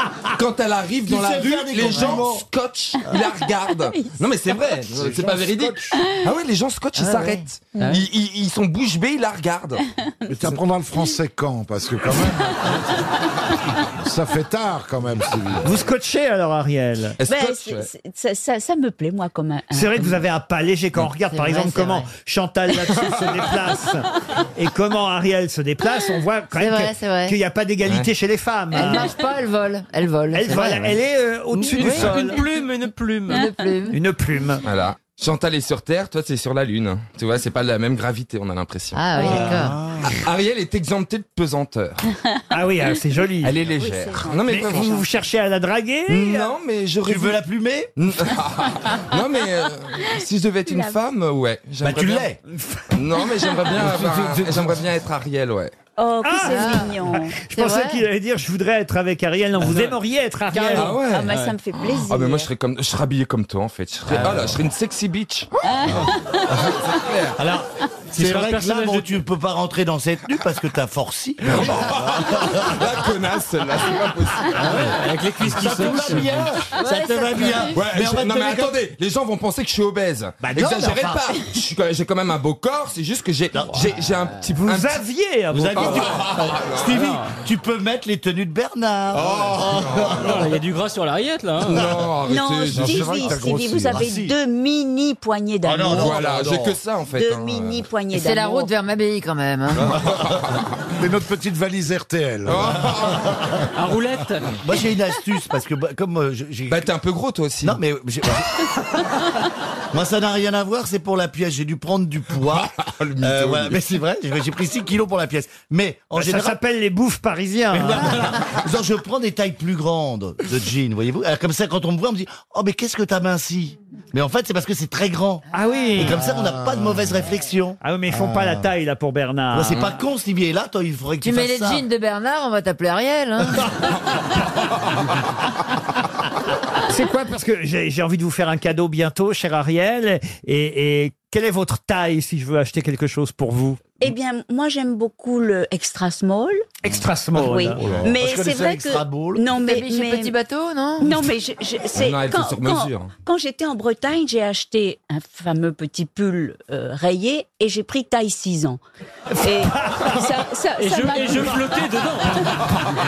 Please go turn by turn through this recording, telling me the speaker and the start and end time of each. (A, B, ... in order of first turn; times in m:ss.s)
0:00.3-0:09.8 A
0:01.0-0:02.4 B
0:04.9-0:05.9 C
0:07.0-0:07.4 D
0:10.3-0:12.8 C
0:14.0-0:15.8 C
0:15.6-0:17.2 E
0:17.2-0:17.9 A
0:17.2-0:20.2 F
0:19.7-0:29.1 E
0:21.3-0:22.1 D
0:26.6-0:27.4 D
0:28.7-0:31.0 D
0:30.3-0:32.4 E
0:31.6-0:33.5 G
0:33.3-0:33.9 D
0:33.9-0:34.6 E
0:34.6-0:42.0 A
0:38.9-0:39.8 D
0:42.5-0:43.6 E
0:43.4-0:45.0 A
0:43.7-0:45.0 F
0:44.5-0:46.5 E
0:46.1-0:47.4 A
0:47.0-0:47.9 B
0:48.0-0:52.3 A
0:50.7-0:50.9 F
0:51.8-0:52.4 B
0:52.9-0:55.7 A
0:53.8-0:54.8 B
0:56.0-0:57.4 F
0:56.2-1:01.0 E
0:56.5-0:56.9 D
0:57.5-0:58.0 D
1:00.5-1:02.5 F
1:00.7-1:07.4 A
1:07.4-1:12.8 B
1:08.1-1:09.1 G
1:11.4-1:14.8 A
1:14.6-1:16.4 G
1:14.6-1:18.8 B
1:17.7-1:25.0 A
1:20.4-1:21.3 B
1:23.5-1:24.1 B
1:24.6-1:26.1 E
1:25.5-1:30.4 B
1:25.7-1:27.1 A
1:29.1-1:30.4 A
1:30.2-1:31.8 G
1:31.6-1:33.6 A
1:32.2-1:36.3 F
1:32.8-1:34.3 B
1:35.6-1:36.8 B
1:35.8-1:37.9 A
1:37.1-1:38.7 F
1:38.1-1:39.9 D
1:39.9-1:40.5 A
1:41.0-1:43.0 C
1:42.4-1:43.2 A
1:43.8-1:44.5 G
1:44.6-1:46.9 B
1:46.7-1:47.8 A
1:47.6-1:48.5 B
1:49.9-1:56.6 B
1:52.5-1:53.8 A
1:56.2-1:58.2 E
1:57.7-2:05.4 B
2:05.5-2:06.2 E
2:06.0-2:08.6 B
2:07.8-2:10.0 E
2:09.5-2:11.9 B
2:11.2-2:13.7 D
2:16.9-2:23.8 E
2:24.0-2:26.7 F
2:26.8-2:27.8 E
2:27.4-2:30.3 F
2:27.9-2:29.4 B
2:29.6-2:31.1 D
2:31.0-2:38.8 F
2:31.9-2:33.1 A
2:39.4-2:41.8 F
2:40.8-2:42.6 G